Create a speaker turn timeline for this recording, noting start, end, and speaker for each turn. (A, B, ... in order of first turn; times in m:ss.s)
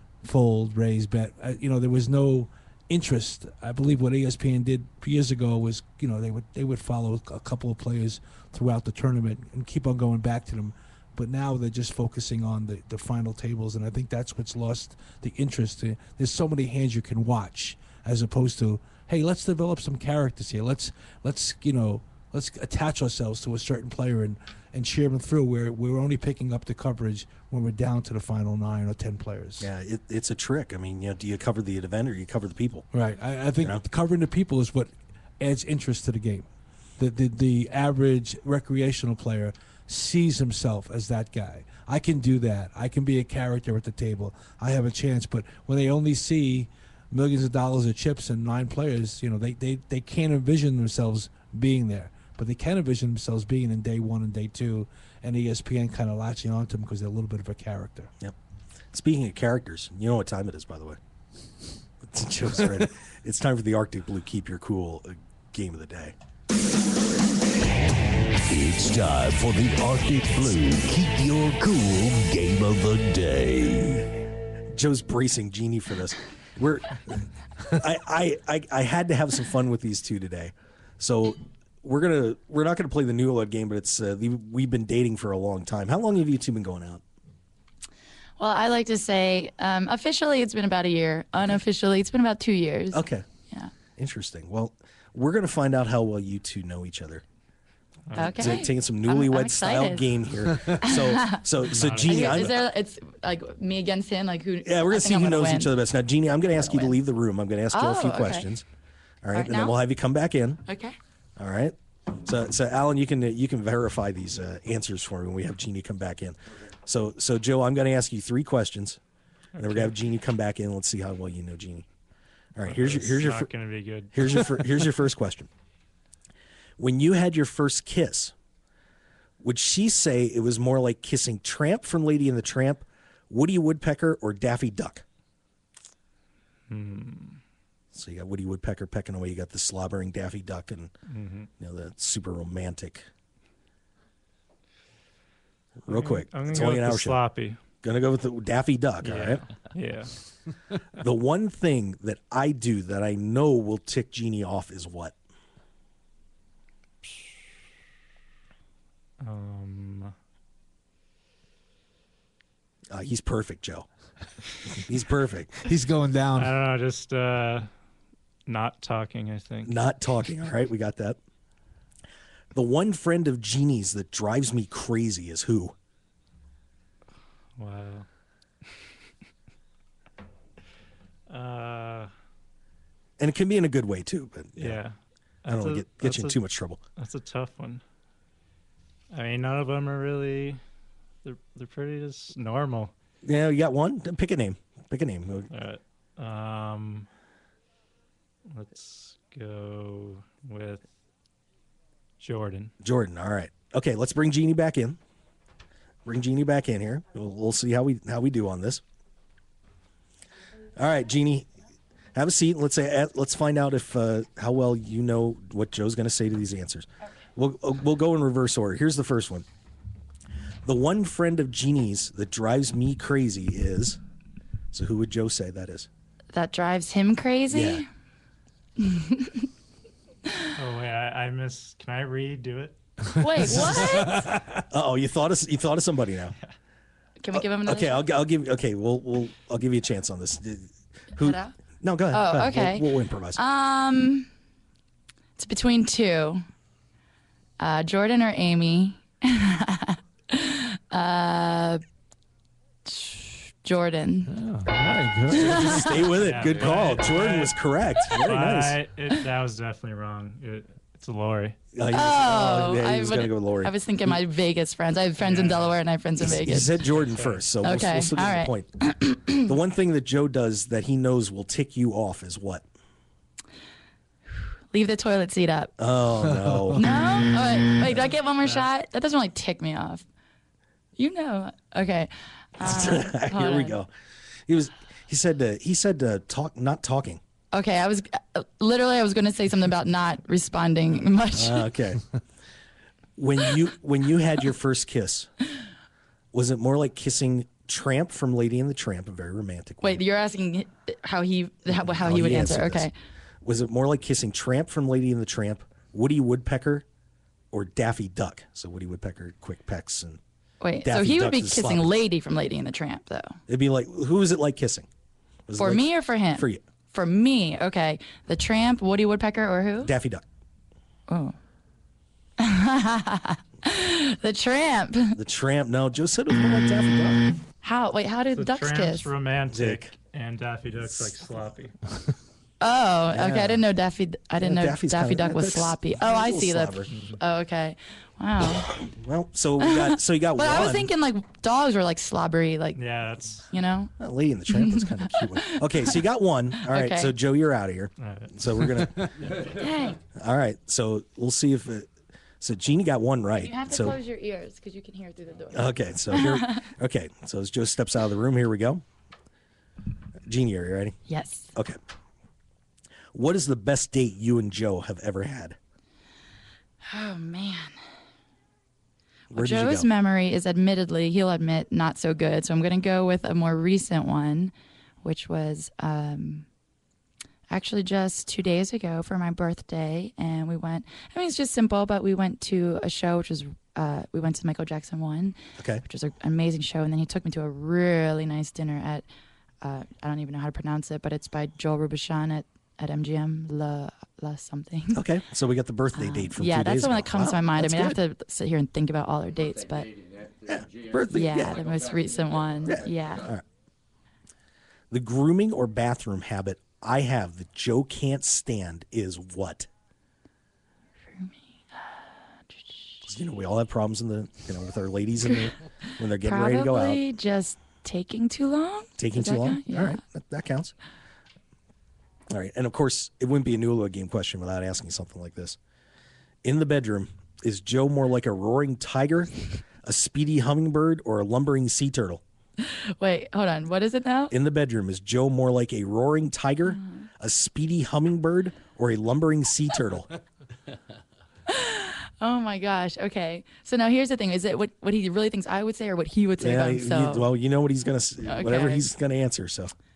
0:00.2-0:29.7 A
0:29.6-0:32.9 B
0:32.9-0:36.5 A
0:37.0-0:58.1 A
0:58.9-1:01.0 B
1:02.0-1:06.2 B
1:08.5-1:14.0 C
1:14.7-1:27.0 B
1:28.4-1:33.7 D
1:32.9-1:33.3 B
1:34.0-1:37.2 B
1:38.1-1:38.7 E
1:38.2-1:42.7 B
1:38.2-1:40.3 D
1:40.8-1:45.7 D
1:41.7-1:42.5 E
1:44.6-1:48.6 B
1:46.5-1:47.0 D
1:47.7-1:48.5 D
1:49.2-1:50.6 B
1:49.3-1:49.8 D
1:50.7-1:51.0 D
1:51.4-1:59.0 B
1:59.6-1:59.9 E
1:59.6-2:01.9 B
2:02.6-2:03.5 B
2:02.6-2:04.7 E
2:04.1-2:05.5 B
2:06.8-2:08.3 B
2:09.4-2:15.0 B
2:16.7-2:17.4 E
2:17.9-2:20.9 B
2:21.1-2:21.5 E
2:21.6-2:23.1 B
2:25.9-2:27.2 B
2:25.9-2:27.6 E
2:27.8-2:29.4 B
2:29.0-2:30.2 E
2:30.9-2:35.2 B
2:39.2-2:40.1 E
2:42.9-2:43.9 B
2:44.9-2:45.6 B
2:45.6-2:46.6 A
2:46.4-2:47.7 E
2:48.5-2:49.8 E
2:49.6-2:51.2 B
2:52.5-2:55.8 B
2:57.6-2:58.1 E
3:01.3-3:02.1 E
3:03.2-3:04.8 B
3:04.6-3:06.4 E
3:05.5-3:06.8 B
3:07.0-3:07.8 E
3:09.1-3:10.6 E
3:11.2-3:12.9 E
3:13.2-3:15.5 B
3:15.5-3:17.1 E
3:18.5-3:20.9 E
3:22.2-3:22.7 E
3:22.8-3:25.0 B
3:26.0-3:28.8 B
3:30.8-3:31.5 B
3:32.1-3:39.5 B
3:40.6-3:44.0 B
3:44.7-3:45.9 B
3:46.3-3:47.9 D
3:47.5-3:47.8 B
3:48.8-3:49.5 D
3:50.6-3:52.8 E
3:53.2-3:54.2 D
3:53.4-3:54.6 A
3:54.7-3:56.4 B
3:57.2-3:58.1 D
3:57.3-4:03.4 B
4:01.2-4:01.5 D
4:02.1-4:02.8 D
4:03.4-4:04.3 D
4:05.4-4:06.5 D
4:07.6-4:11.8 D
4:12.9-4:14.3 D
4:14.3-4:16.0 A
4:15.4-4:15.9 D
4:15.4-4:18.8 B
4:16.1-4:21.6 E
4:21.8-4:24.2 B
4:21.9-4:26.8 D
4:25.2-4:25.8 E
4:26.2-4:28.7 B
4:26.8-4:27.5 E
4:27.6-4:29.5 D
4:29.4-4:32.7 B
4:34.7-4:35.7 D
4:35.8-4:36.8 B
4:36.4-4:36.8 A
4:36.8-4:40.0 D
4:38.4-4:38.7 E
4:41.0-4:43.8 D
4:42.6-4:43.9 B
4:44.5-4:47.2 B
4:47.5-4:51.7 D
4:51.4-4:52.0 B
4:53.2-4:55.3 B
4:56.3-5:00.0 B
4:59.8-5:02.9 D
5:01.7-5:02.9 B
5:03.4-5:06.8 B
5:07.5-5:10.2 B
5:10.6-5:13.4 D
5:10.8-5:12.0 B
5:13.5-5:14.9 B
5:15.5-5:16.6 B
5:15.6-5:19.9 D
5:19.8-5:20.2 B
5:21.1-5:21.4 D
5:22.4-5:25.2 D
5:25.2-5:27.2 B
5:27.6-5:29.1 D
5:28.3-5:31.8 E
5:29.5-5:29.9 B
5:30.8-5:31.4 B
5:32.6-5:38.7 D
5:33.1-5:33.6 B
5:34.4-5:37.0 B
5:36.9-5:37.2 E
5:38.8-5:40.9 B
5:39.6-5:42.8 D
5:42.8-5:43.5 E
5:43.5-5:43.9 D
5:44.0-5:49.3 B
5:44.5-5:46.0 D
5:46.6-5:47.1 D
5:48.0-5:48.4 E
5:49.5-5:50.0 D
5:50.1-5:51.9 B
5:52.4-5:54.0 B
5:53.4-5:56.7 D
5:55.5-5:58.8 B
6:00.3-6:01.0 B
6:01.1-6:01.5 D
6:03.1-6:05.6 B
6:06.9-6:07.8 D
6:09.3-6:09.9 B
6:09.3-6:16.5 D
6:17.5-6:29.1 D
6:25.6-6:25.8 B
6:29.6-6:35.0 D
6:34.9-6:38.0 B
6:35.9-6:40.0 D
6:40.4-6:41.8 B
6:41.1-6:43.3 D
6:42.6-6:43.4 B
6:44.9-6:49.7 B
6:51.1-6:53.0 D
6:53.0-6:57.0 B
6:56.2-7:00.0 D
6:59.0-7:00.8 B
7:02.3-7:05.6 B
7:06.4-7:12.2 B
7:12.6-7:14.3 D
7:14.3-7:20.1 B
7:21.5-7:27.3 D
7:26.4-7:29.7 B
7:28.2-7:28.9 D